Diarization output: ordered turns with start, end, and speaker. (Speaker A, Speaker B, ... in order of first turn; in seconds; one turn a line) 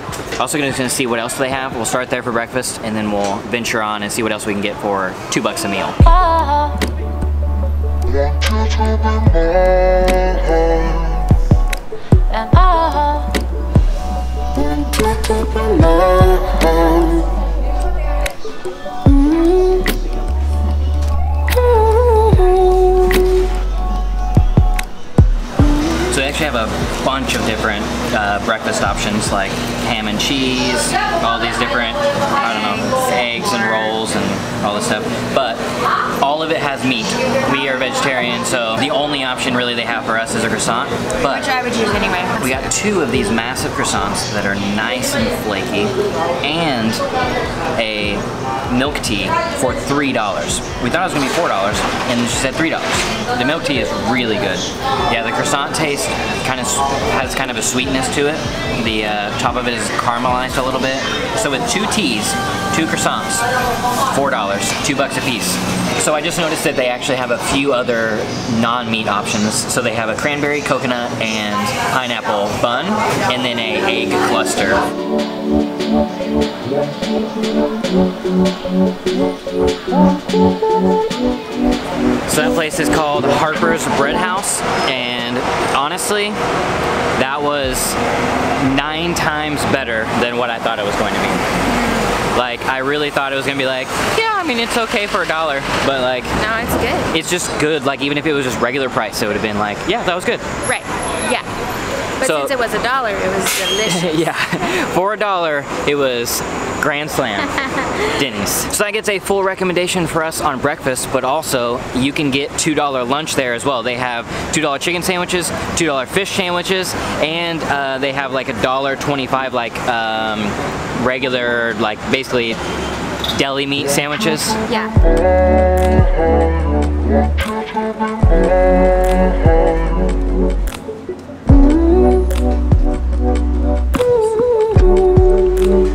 Speaker A: 0.4-6.0
Speaker A: 26.1-35.6
Speaker B: 32.3-33.1
Speaker A: 36.2-41.5
Speaker B: 41.3-42.6
Speaker A: 42.4-47.0
Speaker A: 47.8-63.5
Speaker A: 64.1-74.8
Speaker A: 82.3-86.4
Speaker A: 87.2-88.0
Speaker A: 88.5-91.5
Speaker B: 91.7-92.2
Speaker A: 92.3-96.3
Speaker B: 96.4-97.1
Speaker A: 97.1-100.5
Speaker B: 100.6-101.5
Speaker B: 102.2-104.3
Speaker A: 102.2-102.6
Speaker A: 103.8-122.6
Speaker A: 123.3-124.6
Speaker B: 124.7-125.0